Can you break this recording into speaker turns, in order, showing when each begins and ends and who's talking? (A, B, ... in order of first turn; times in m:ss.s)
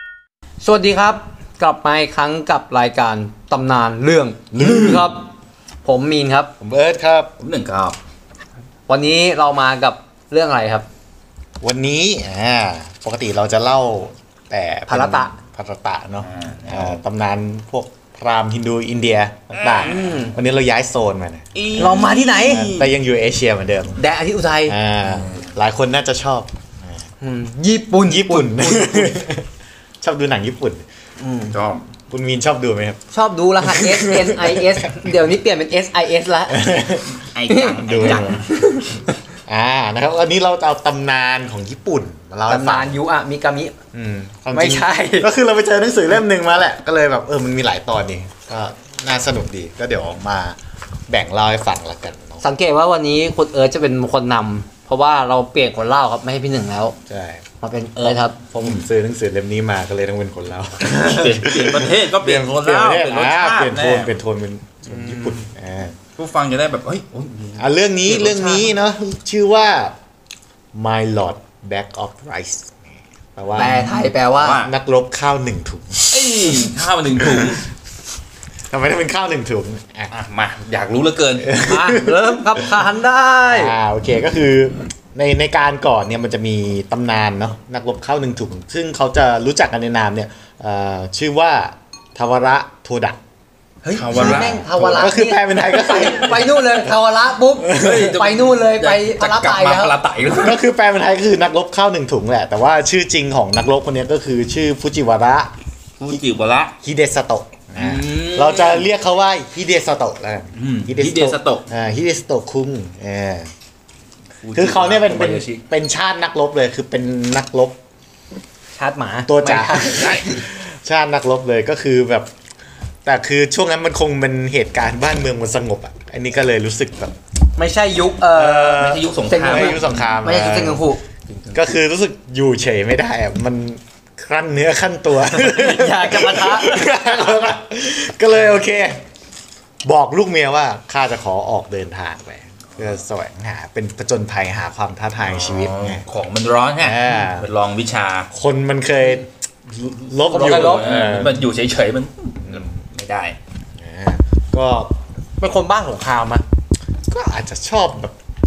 0:00.6-0:05.3 A
0:04.6-0:05.1 B
0:05.8-0:06.5 A
0:06.6-0:07.3 B
0:07.4-0:08.0 C
0:08.9-0:10.9 A
0:11.6-0:24.0 B
0:14.9-0:15.3 A
0:16.2-0:17.0 C
0:19.6-0:20.1 C
0:19.8-0:20.4 A
0:21.6-0:22.9 C
0:21.8-0:22.7 A
0:24.0-0:24.8 A
0:24.7-0:27.0 B
0:25.0-0:25.5 C
0:27.2-0:29.2 A
0:28.0-0:29.5 B
0:30.0-0:30.9 B
0:31.2-0:31.6 A
0:31.5-0:31.8 C
0:32.1-0:33.0 B
0:33.1-0:36.8 A
0:33.6-0:35.1 B
0:36.5-0:37.2 B
0:37.2-0:38.5 C
0:37.5-0:39.0 A
0:37.8-0:38.4 B
0:39.5-0:43.0 B
0:42.5-0:43.8 A
0:43.9-0:50.6 B
0:44.5-0:45.3 A
0:51.1-0:52.4 B
0:52.4-0:57.0 A
0:57.1-0:57.4 B
0:57.6-0:58.4 A
0:58.0-1:06.0 B
1:00.8-1:04.1 C
1:06.2-1:08.7 C
1:07.6-1:10.0 B
1:10.7-1:12.8 B
1:13.4-1:13.9 B
1:13.5-1:14.6 A
1:13.5-1:14.7 C
1:14.6-1:17.6 B
1:16.1-1:17.6 C
1:18.7-1:20.1 B
1:20.1-1:21.5 C
1:21.4-1:22.6 B
1:21.6-1:23.8 A
1:23.5-1:33.2 B
1:33.8-1:40.0 A
1:33.9-1:35.1 C
1:34.1-1:36.7 B
1:37.6-1:38.1 B
1:37.7-1:40.6 C
1:40.4-1:45.5 B
1:46.0-1:46.8 C
1:46.8-1:53.5 B
1:47.8-1:48.9 C
1:50.6-1:51.7 C
1:54.4-1:55.6 C
1:54.5-1:57.8 B
1:58.8-2:00.4 A
1:59.3-2:02.3 B
1:59.9-2:00.3 C
2:03.0-2:07.2 B
2:07.6-2:11.0 A
2:08.3-2:10.8 B
2:08.8-2:10.1 C
2:11.3-2:11.6 C
2:11.5-2:19.0 B
2:15.3-2:16.9 A
2:19.8-2:26.0 B
2:25.3-2:28.3 C
2:26.8-2:27.5 B
2:28.3-2:31.5 B
2:30.3-2:30.9 A
2:30.4-2:33.4 C
2:33.8-2:34.9 B
2:35.4-2:36.4 A
2:37.1-2:38.2 B